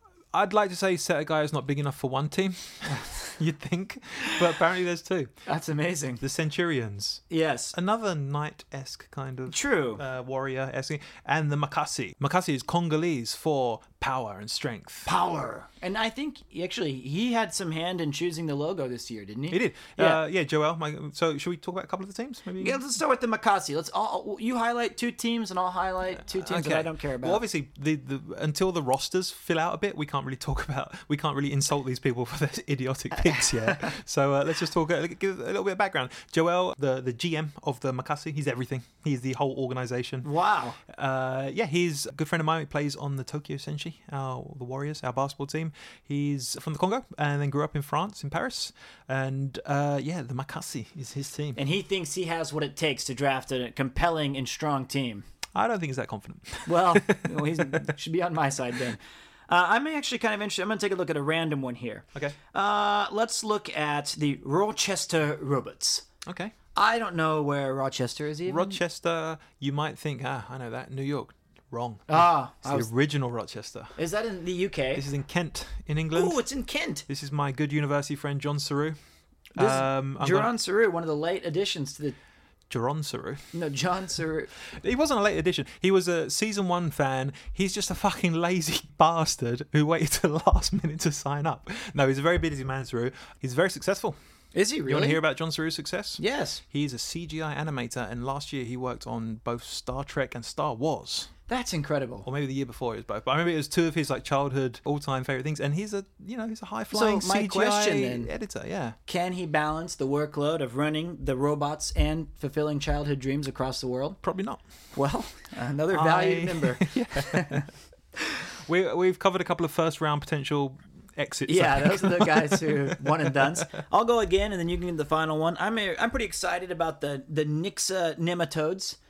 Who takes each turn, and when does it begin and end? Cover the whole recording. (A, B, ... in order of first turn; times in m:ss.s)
0:00.3-0:05.3 A
0:05.4-0:06.2 B
0:06.2-0:15.1 A
0:07.3-0:07.7 B
0:09.5-0:10.0 B
0:15.0-0:20.2 B
0:19.5-0:22.8 A
0:22.6-0:27.4 B
0:26.3-0:40.3 A
0:40.2-0:40.8 B
0:40.8-0:51.6 A
0:51.6-0:55.2 B
0:55.5-0:57.8 A
0:56.6-1:06.0 B
1:06.2-1:06.5 A
1:06.7-1:08.8 B
1:08.4-1:13.9 A
1:12.1-1:12.9 B
1:14.0-1:15.0 B
1:14.9-1:16.4 A
1:16.1-1:17.0 B
1:17.1-1:19.0 A
1:19.5-1:20.5 A
1:19.6-1:22.2 B
1:22.7-1:23.5 A
1:23.5-1:24.5 B
1:24.7-1:34.2 A
1:34.5-1:35.2 B
1:34.9-1:41.3 A
1:36.2-1:36.6 B
1:41.5-1:42.2 B
1:42.2-1:49.0 A
1:46.9-1:48.3 B
1:49.0-1:54.2 B
1:54.2-1:54.6 A
1:54.9-1:57.7 B
1:55.9-1:57.6 A
1:58.7-2:03.6 A
2:01.5-2:09.0 B